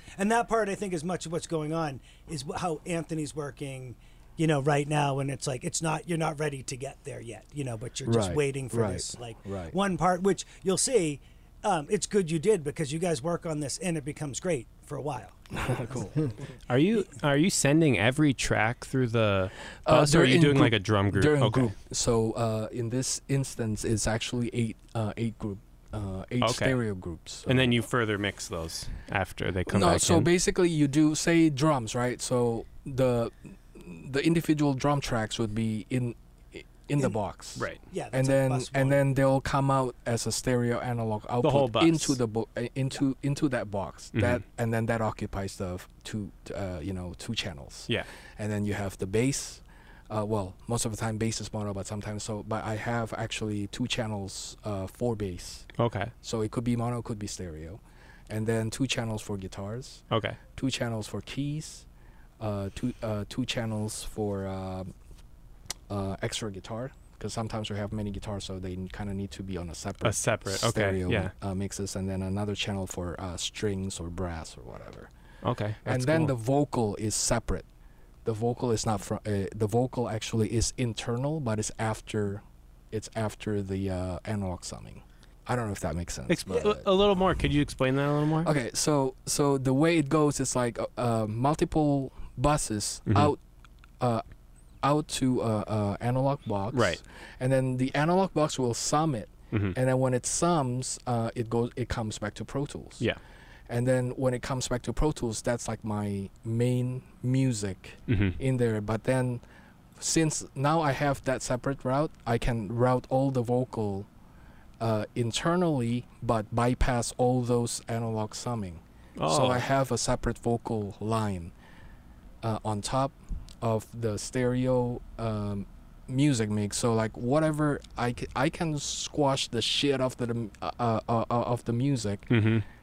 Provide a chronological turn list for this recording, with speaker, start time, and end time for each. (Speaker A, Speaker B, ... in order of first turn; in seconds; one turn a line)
Speaker A: 0.1-16.3
Speaker B: 8.1-9.7
Speaker B: 15.5-16.3
Speaker C: 16.6-21.7
Speaker B: 19.8-27.8
Speaker C: 26.4-26.8
Speaker C: 27.5-30.3
Speaker B: 29.7-61.9
Speaker A: 37.8-39.0
Speaker C: 41.4-42.2
Speaker C: 44.1-44.4
Speaker C: 55.8-56.1
Speaker C: 60.1-60.4
Speaker B: 62.4-64.9
Speaker B: 65.9-75.1
Speaker C: 70.0-71.3
Speaker C: 75.4-76.3
Speaker B: 75.8-77.7
Speaker B: 78.2-86.8
Speaker C: 86.3-88.5
Speaker B: 88.4-93.4
Speaker C: 93.1-93.3
Speaker B: 94.8-103.1
Speaker C: 96.7-97.0
Speaker B: 103.7-109.4
Speaker C: 108.1-108.4
Speaker B: 110.0-114.1
Speaker B: 114.8-121.5
Speaker C: 119.2-119.6
Speaker B: 122.4-132.5
Speaker C: 132.3-132.7